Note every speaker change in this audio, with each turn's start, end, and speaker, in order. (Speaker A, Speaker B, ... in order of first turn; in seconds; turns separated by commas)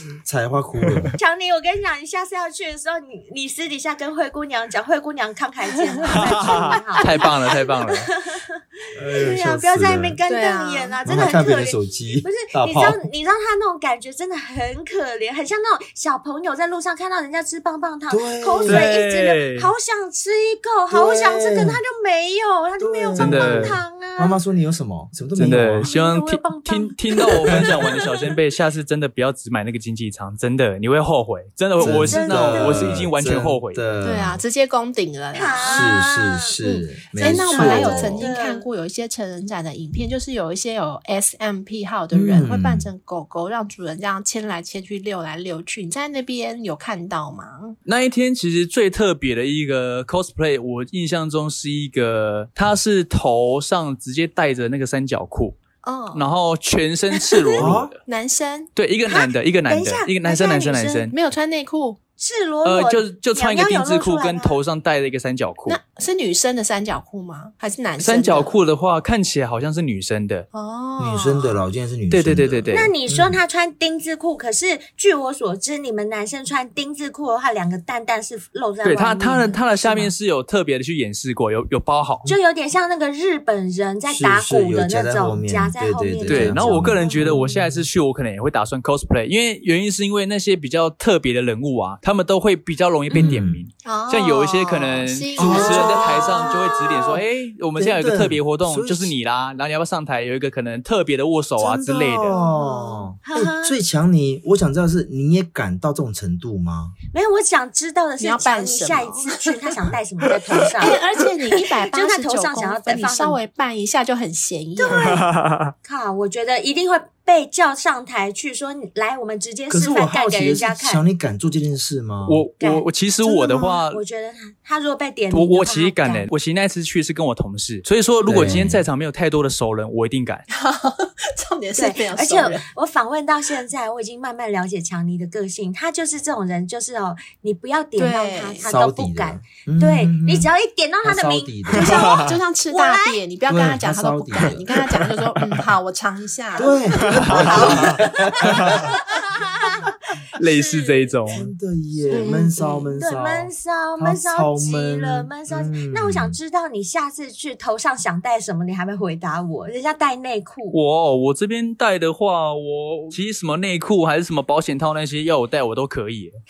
Speaker A: 0.2-1.1, Speaker B: 1.2-24.4, Speaker C: 5.7-7.2, Speaker D: 6.1-8.1, Speaker A: 8.9-10.2, Speaker C: 10.3-11.0, Speaker A: 11.1-13.0, Speaker A: 18.1-18.9, Speaker D: 18.6-19.7, Speaker A: 20.9-21.8, Speaker A: 22.8-25.9, Speaker D: 23.2-23.8, Speaker D: 25.3-33.8, Speaker B: 25.9-28.1, Speaker B: 31.8-33.1, Speaker A: 31.8-34.4, Speaker C: 34.0-36.0, Speaker B: 35.3-36.5, Speaker A: 35.6-38.3, Speaker C: 36.6-47.7, Speaker B: 37.2-38.7, Speaker A: 42.1-42.9, Speaker D: 47.9-55.6, Speaker C: 55.8-56.3, Speaker D: 56.1-58.0, Speaker A: 57.6-57.9, Speaker C: 57.6-58.7, Speaker D: 58.8-61.1, Speaker B: 59.0-61.1, Speaker C: 61.1-62.0, Speaker B: 62.2-64.6, Speaker D: 62.6-65.8, Speaker C: 65.7-68.5, Speaker D: 68.0-70.5, Speaker C: 70.5-71.6, Speaker A: 71.0-73.4, Speaker D: 72.1-72.9, Speaker B: 72.7-80.1, Speaker D: 78.8-82.2, Speaker B: 82.3-86.9, Speaker A: 84.1-87.8, Speaker D: 86.3-102.3, Speaker C: 87.1-87.6, Speaker B: 93.1-93.4, Speaker A: 93.1-93.6, Speaker C: 93.8-96.4, Speaker A: 95.4-96.3, Speaker B: 95.5-97.2, Speaker A: 97.8-99.1, Speaker A: 101.6-106.9, Speaker C: 102.3-103.1, Speaker B: 103.2-103.8, Speaker B: 107.1-111.0, Speaker C: 108.2-109.7, Speaker C: 110.6-115.2, Speaker B: 111.9-113.4, Speaker B: 114.8-115.3, Speaker D: 115.0-115.7, Speaker B: 115.8-121.0, Speaker A: 119.7-122.4, Speaker D: 122.2-124.0, Speaker B: 122.6-122.8, Speaker B: 123.9-126.3, Speaker D: 125.3-130.4, Speaker A: 128.3-128.8, Speaker C: 130.5-132.7, Speaker B: 131.8-143.2, Speaker C: 138.0-138.7, Speaker A: 138.6-140.5, Speaker A: 141.0-142.2, Speaker C: 141.8-147.6, Speaker D: 141.8-142.2, Speaker A: 143.5-144.9, Speaker D: 145.4-145.7, Speaker A: 146.5-148.9, Speaker D: 147.1-147.9, Speaker B: 147.2-151.2, Speaker D: 148.5-148.9, Speaker D: 150.4-151.5, Speaker A: 151.3-156.4, Speaker C: 152.1-152.9, Speaker B: 152.1-152.4, Speaker B: 152.9-160.8, Speaker D: 160.7-166.3